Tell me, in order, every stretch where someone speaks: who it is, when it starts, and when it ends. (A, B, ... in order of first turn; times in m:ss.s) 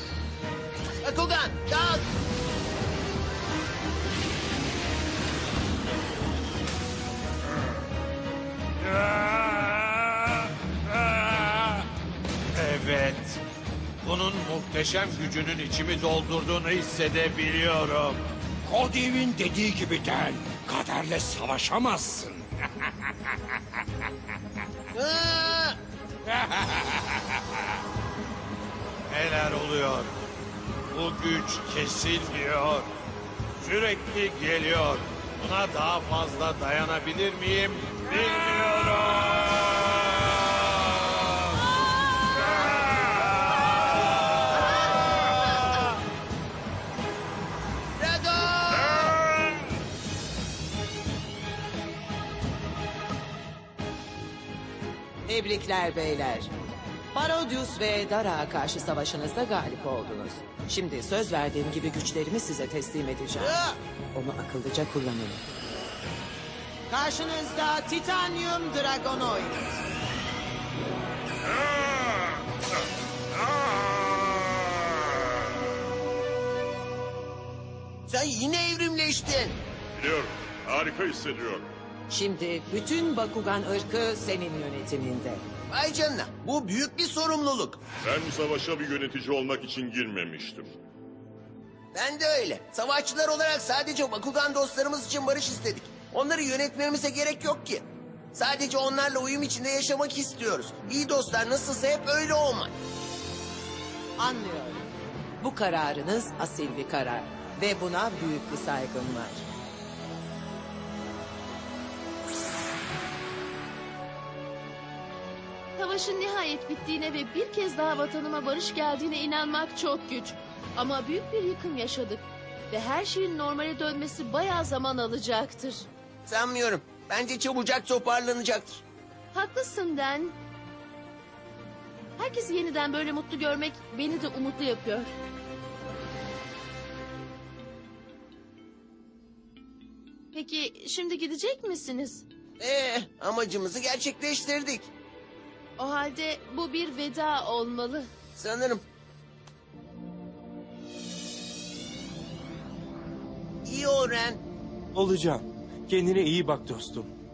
0:01.0-0:02.1 A
0:08.9-0:09.8 B
0:12.5-0:13.4 B
0:14.0-0:18.2 B
0:18.6-0:22.5 C
0:24.9-0:25.8 A
0:29.1-0:30.1 B
0:30.9-0:32.9 B
0:33.6-0:39.4 B
0:41.8-0:42.5 A
0:48.0-0:49.2 A
0:55.2-0:56.5 D
0:57.1-1:03.6 D
1:03.4-1:03.8 A
1:04.1-1:05.4 D
1:06.9-1:09.6 D
1:18.1-1:19.6 A
1:20.0-1:21.7 E
1:22.1-1:25.4 D
1:25.7-1:27.8 A
1:28.0-1:30.7 E
1:31.9-1:42.7 A
1:44.2-1:49.4 D
1:55.8-2:05.8 F
2:06.2-2:08.8 A
2:09.3-2:10.4 F
2:12.2-2:15.1 F
2:20.3-2:22.2 F
2:22.6-2:24.9 A
2:25.8-2:28.1 F
2:28.4-2:28.8 A
2:33.6-2:34.4 A
2:34.9-2:37.1 G